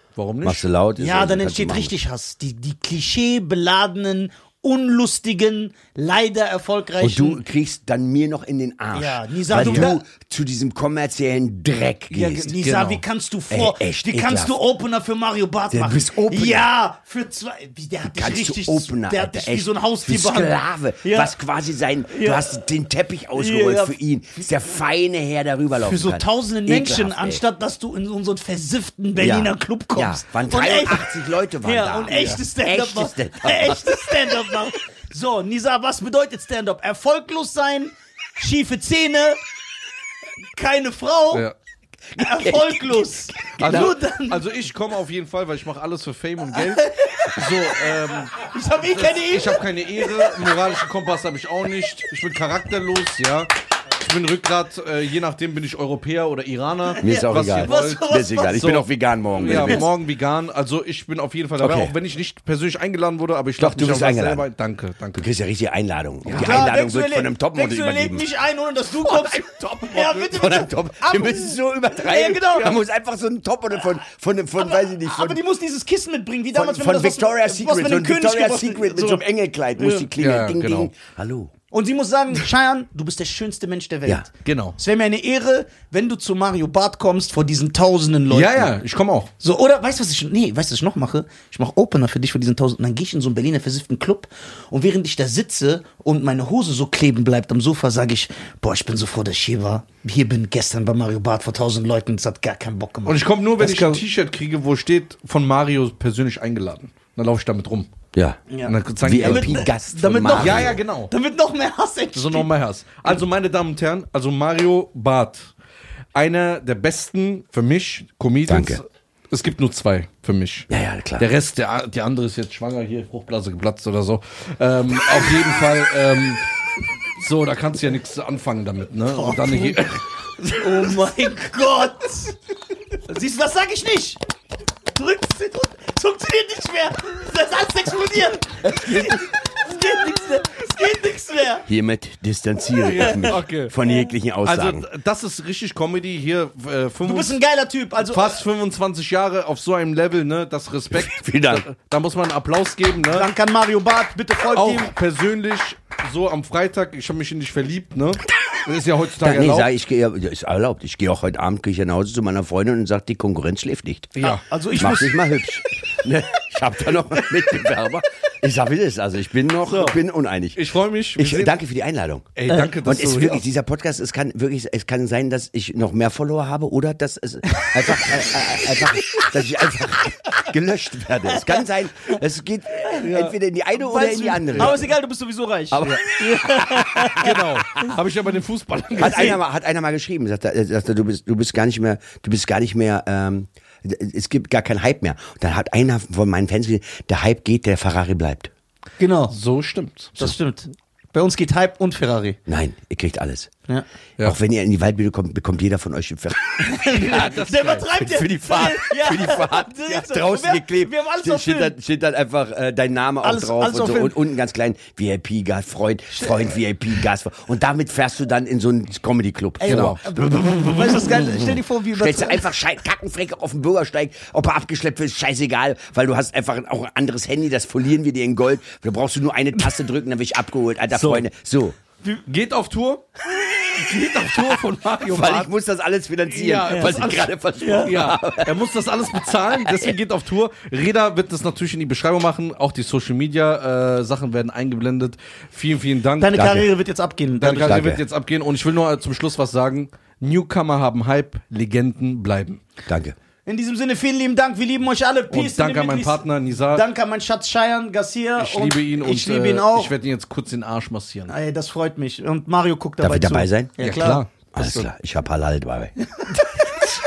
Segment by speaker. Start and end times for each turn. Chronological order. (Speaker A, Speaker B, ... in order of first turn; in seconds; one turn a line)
Speaker A: 0.2-0.7
Speaker B: 0.4-1.9
Speaker C: 1.0-7.4
Speaker B: 7.0-12.5
Speaker C: 8.9-10.0
Speaker A: 9.5-9.9
Speaker C: 12.1-21.4
Speaker A: 12.5-13.0
Speaker B: 13.5-14.6
Speaker B: 15.7-16.7
Speaker B: 18.1-27.4
Speaker C: 22.1-22.6
Speaker C: 23.4-24.0
Speaker C: 25.8-39.4
Speaker B: 29.2-34.6
Speaker A: 32.1-32.4
Speaker C: 40.5-41.5
Speaker B: 42.1-43.9
Speaker C: 42.2-44.4
Speaker A: 43.6-65.3
Speaker C: 48.5-49.6
Speaker C: 56.9-58.6
Speaker B: 57.0-59.9
Speaker C: 59.4-59.8
Speaker B: 61.6-61.9
Speaker B: 63.6-64.5
Speaker B: 65.2-68.3
Speaker A: 66.2-66.7
Speaker C: 66.3-72.8
Speaker A: 69.1-70.3
Speaker B: 70.3-75.4
Speaker C: 74.6-79.2
Speaker B: 76.5-81.5
Speaker C: 79.8-80.1
Speaker A: 80.2-80.9
Speaker C: 81.7-88.7
Speaker A: 84.5-84.8
Speaker A: 88.3-89.3
Speaker C: 89.4-104.0
Speaker A: 103.1-107.9
Speaker B: 108.2-108.4
Speaker C: 108.5-112.5
Speaker A: 108.7-109.7
Speaker B: 109.0-110.8
Speaker A: 110.3-111.1
Speaker A: 112.2-115.5
Speaker A: 116.2-120.7
Speaker B: 118.5-118.8
Speaker B: 120.7-121.3
Speaker A: 121.2-126.4
Speaker A: 127.2-130.9
Speaker C: 129.1-129.8
Speaker C: 130.4-132.4
Speaker C: 133.1-134.2
Speaker C: 134.9-141.7
Speaker B: 141.7-144.9
Speaker C: 142.9-143.3
Speaker A: 142.9-143.8
Speaker A: 144.4-147.4
Speaker C: 147.0-148.4
Speaker A: 148.0-153.3
Speaker B: 150.9-151.6
Speaker C: 153.1-154.9
Speaker A: 154.5-159.7
Speaker B: 159.2-164.2
Speaker A: 164.2-164.5
Speaker C: 164.2-165.2
Speaker B: 164.8-170.6
Speaker A: 169.7-170.0
Speaker A: 170.6-171.5
Speaker B: 171.2-184.9
Speaker A: 172.4-173.4
Speaker C: 177.5-178.1
Speaker A: 183.0-183.3
Speaker C: 183.8-187.4
Speaker B: 185.7-187.9
Speaker A: 187.1-189.4
Speaker B: 189.0-198.5
Speaker C: 199.0-199.4
Speaker A: 199.3-200.2
Speaker C: 200.2-202.4
Speaker B: 202.5-203.5
Speaker B: 204.2-207.3
Speaker C: 206.6-211.7
Speaker A: 207.0-207.9
Speaker B: 207.9-220.4
Speaker C: 213.2-214.1
Speaker C: 216.1-216.5
Speaker C: 219.6-222.4
Speaker A: 219.7-220.0
Speaker B: 221.0-231.8
Speaker A: 230.9-231.2
Speaker A: 232.3-233.1
Speaker A: 233.7-235.5
Speaker B: 235.0-238.7
Speaker A: 236.3-246.6
Speaker C: 236.7-237.0
Speaker C: 237.6-237.9
Speaker B: 239.2-239.9
Speaker C: 246.2-247.8
Speaker B: 246.3-246.7
Speaker A: 247.4-252.6
Speaker B: 247.6-248.0
Speaker B: 252.9-253.2
Speaker C: 253.5-259.9
Speaker A: 255.3-256.9
Speaker A: 258.4-261.3
Speaker C: 261.3-264.2
Speaker B: 263.0-263.8
Speaker A: 263.8-264.9
Speaker B: 264.5-266.6